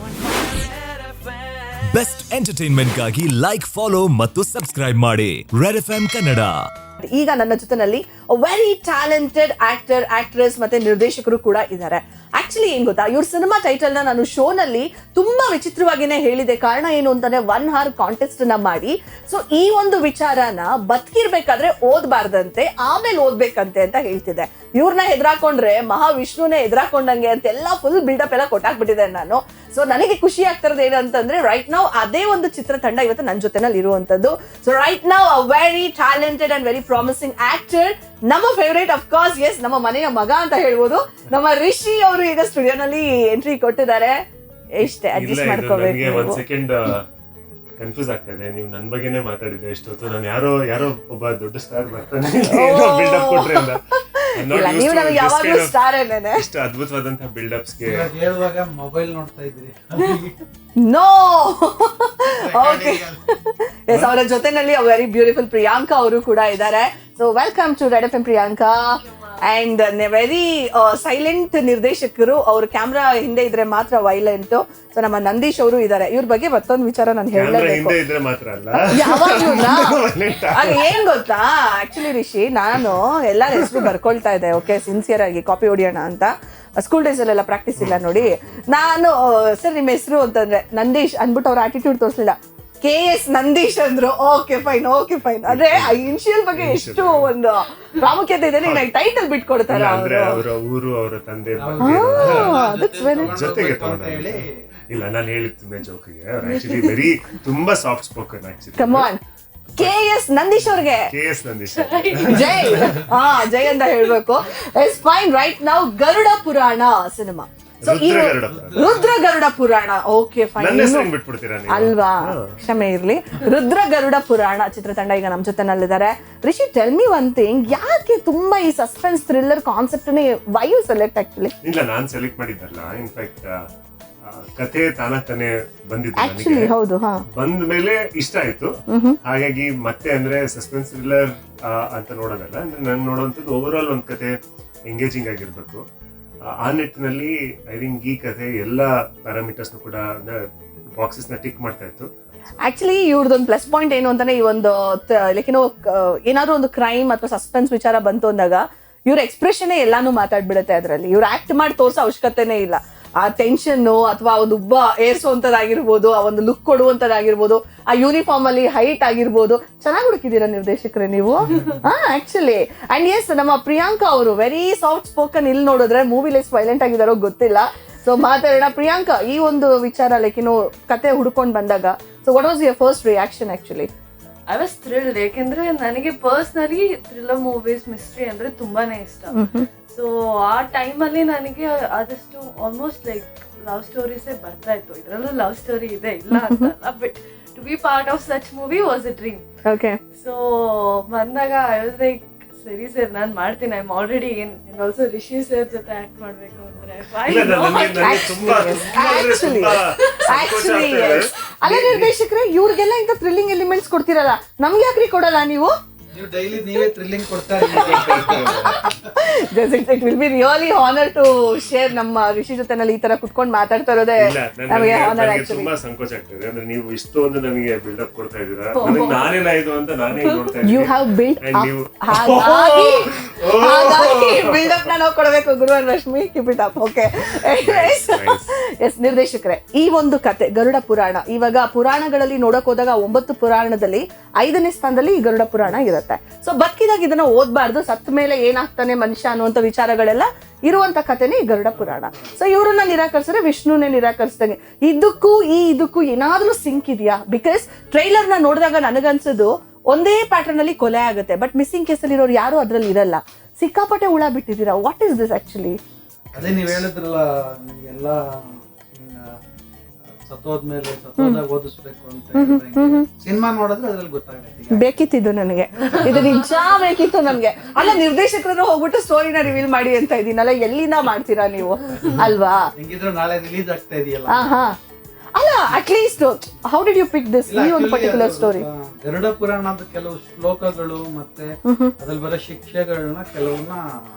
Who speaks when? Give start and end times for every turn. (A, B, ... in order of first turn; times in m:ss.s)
0:00.3-0:00.6 A
0:01.8-0:06.7 A
0:07.0-0:44.2 B
0:44.8-0:46.4 B
0:45.0-0:47.0 C
0:47.8-0:53.8 C
0:52.5-0:56.5 B
0:54.4-0:55.8 C
0:56.3-0:58.1 C
0:57.8-1:00.4 D
1:00.8-1:18.0 B
1:02.3-1:03.2 D
1:03.9-1:04.1 C
1:17.3-1:21.0 C
1:18.7-1:20.0 B
1:20.5-1:40.4 B
1:23.6-1:23.9 C
1:27.8-1:28.6 C
1:35.4-1:37.3 C
1:38.6-1:38.9 C
1:39.7-1:42.6 C
1:41.6-1:44.5 D
1:41.8-1:43.4 B
1:43.1-1:44.4 C
1:44.9-1:49.1 C
1:48.8-1:49.2 B
1:49.8-1:51.1 B
1:51.1-1:53.0 C
1:51.7-1:53.1 E
1:52.3-2:01.1 B
1:57.8-1:58.9 C
1:58.5-1:59.1 D
2:00.6-2:02.5 C
2:01.7-2:11.5 B
2:11.6-2:13.6 C
2:14.2-2:16.7 C
2:16.2-2:17.2 B
2:17.3-2:18.7 C
2:18.9-2:19.2 B
2:19.2-2:24.3 C
2:24.9-2:25.8 C
2:26.6-2:30.4 C
2:31.0-2:32.1 C
2:32.6-3:03.9 B
3:04.5-3:09.3 E
3:09.3-3:09.7 B
3:09.9-3:19.4 E
3:16.3-3:16.7 B
3:19.6-3:20.0 B
3:20.1-3:28.4 E
3:26.7-3:32.1 C
3:27.9-3:35.7 B
3:28.2-3:29.6 D
3:29.7-3:30.2 E
3:36.1-3:39.0 D
3:37.6-3:45.7 B
3:37.7-3:38.8 C
3:44.2-3:54.8 C
3:48.8-3:49.4 E
3:50.6-4:25.8 B
3:57.4-3:58.5 C
4:26.3-4:26.8 C
4:26.4-4:29.4 D
4:30.3-4:34.9 D
4:31.2-4:31.4 B
4:32.3-4:33.1 B
4:34.7-4:42.7 B
4:36.0-4:36.4 D
4:42.8-4:44.6 D
4:44.3-4:44.8 B
4:45.3-4:48.6 B
4:47.5-4:53.8 D
4:51.6-4:51.9 B